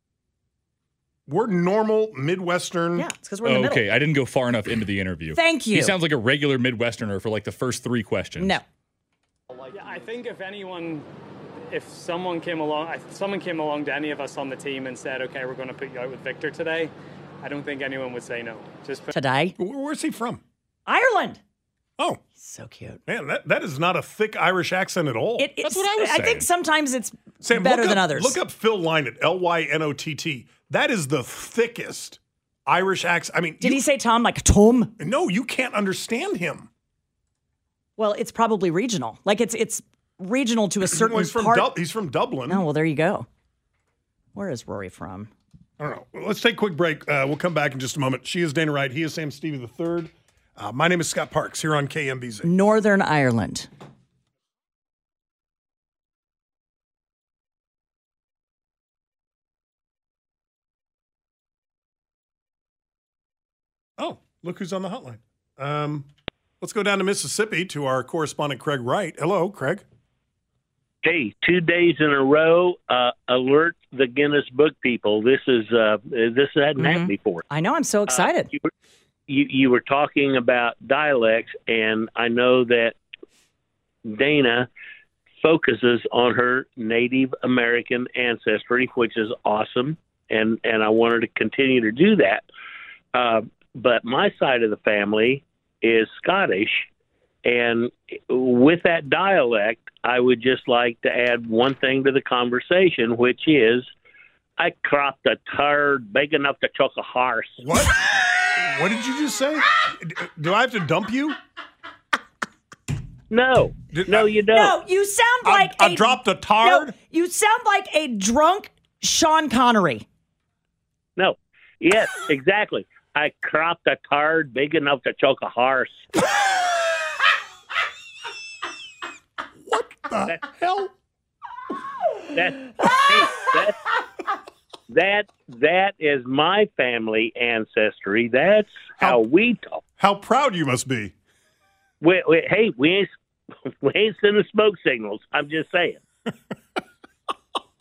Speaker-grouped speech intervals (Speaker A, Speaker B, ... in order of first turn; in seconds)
Speaker A: 1.3-3.1, 19.6-20.4, 23.1-25.5, 27.4-33.8, 35.0-36.7, 40.9-42.6, 45.8-52.5, 64.0-66.1, 66.6-69.8, 107.6-111.4, 113.9-114.3, 115.4-116.9, 129.7-130.9, 140.0-141.1
Speaker B: 3.0-3.8, 5.3-5.9, 8.4-8.6, 19.1-19.6, 20.9-21.4, 22.4-23.0, 25.4-28.4, 33.6-35.0, 38.0-41.7, 42.5-43.3, 44.3-45.3, 52.4-53.7, 76.8-78.5, 114.5-120.0
Speaker C: 3.4-8.6, 25.6-26.4
Speaker D: 9.6-11.1, 11.7-19.1
Speaker E: 71.0-77.4, 79.3-83.0, 84.0-84.7, 85.4-92.4, 93.1-96.9, 97.4-103.9, 104.6-107.6, 113.3-114.8, 121.2-126.0, 132.3-133.8, 134.9-139.8, 142.0-143.1, 143.8-146.0